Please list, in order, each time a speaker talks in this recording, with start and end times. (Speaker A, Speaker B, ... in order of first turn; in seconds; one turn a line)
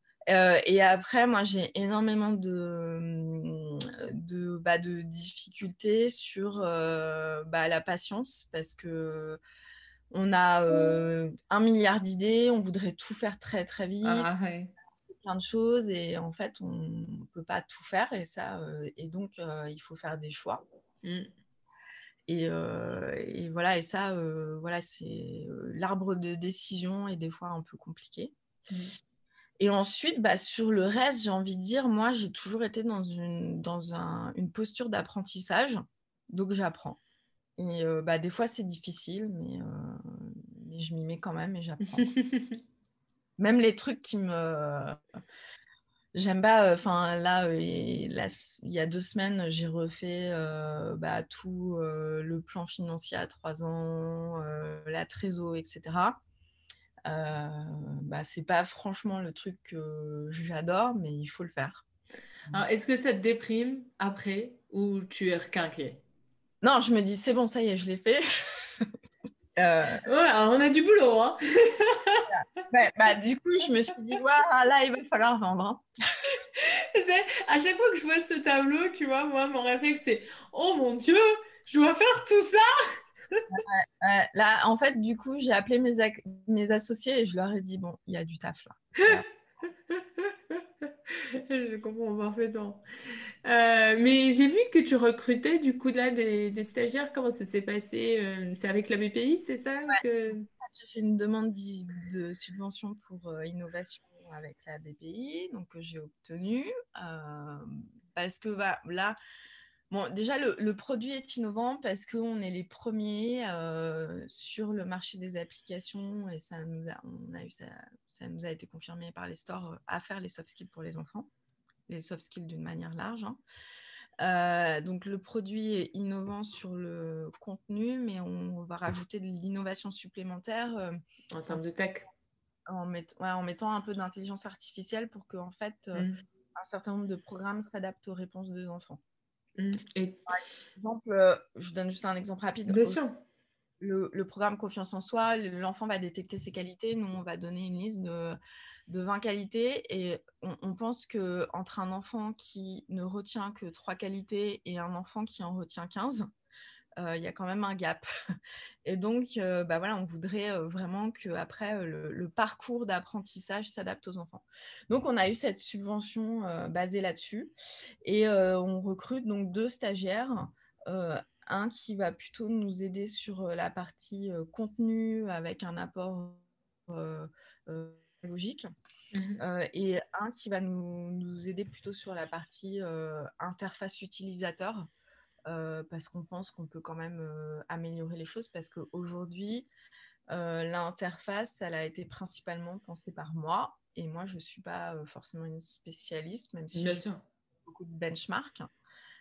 Speaker A: 0.3-9.4
Speaker A: 10.1-14.3
Speaker B: 14.0-14.7
Speaker A: 14.9-20.6
Speaker B: 21.0-21.3
Speaker A: 22.3-28.3
Speaker A: 29.6-37.0
Speaker A: 37.6-42.0
Speaker B: 42.0-42.6
Speaker A: 43.4-45.0
Speaker A: 46.1-56.2
Speaker A: 57.0-61.8
Speaker B: 62.5-66.0
Speaker A: 66.6-68.9
Speaker A: 69.6-70.0
Speaker B: 70.0-72.3
Speaker A: 72.3-75.8
Speaker B: 76.3-82.7
Speaker A: 83.5-89.2
Speaker B: 89.9-92.8
Speaker B: 93.4-100.5
Speaker A: 100.6-109.2
Speaker A: 109.9-121.3
Speaker A: 121.9-123.4
Speaker A: 124.2-131.0
Speaker B: 131.3-132.1
Speaker A: 132.7-139.0
Speaker B: 139.6-140.2
Speaker A: 140.3-143.0
Speaker B: 142.7-143.2
Speaker A: 143.8-156.3
Speaker A: 157.0-158.1
Speaker A: 158.8-178.7
Speaker B: 179.1-179.4
Speaker A: 179.4-184.9
Speaker A: 185.5-189.7
Speaker A: 190.3-197.0
Speaker B: 196.7-197.2
Speaker A: 197.7-198.7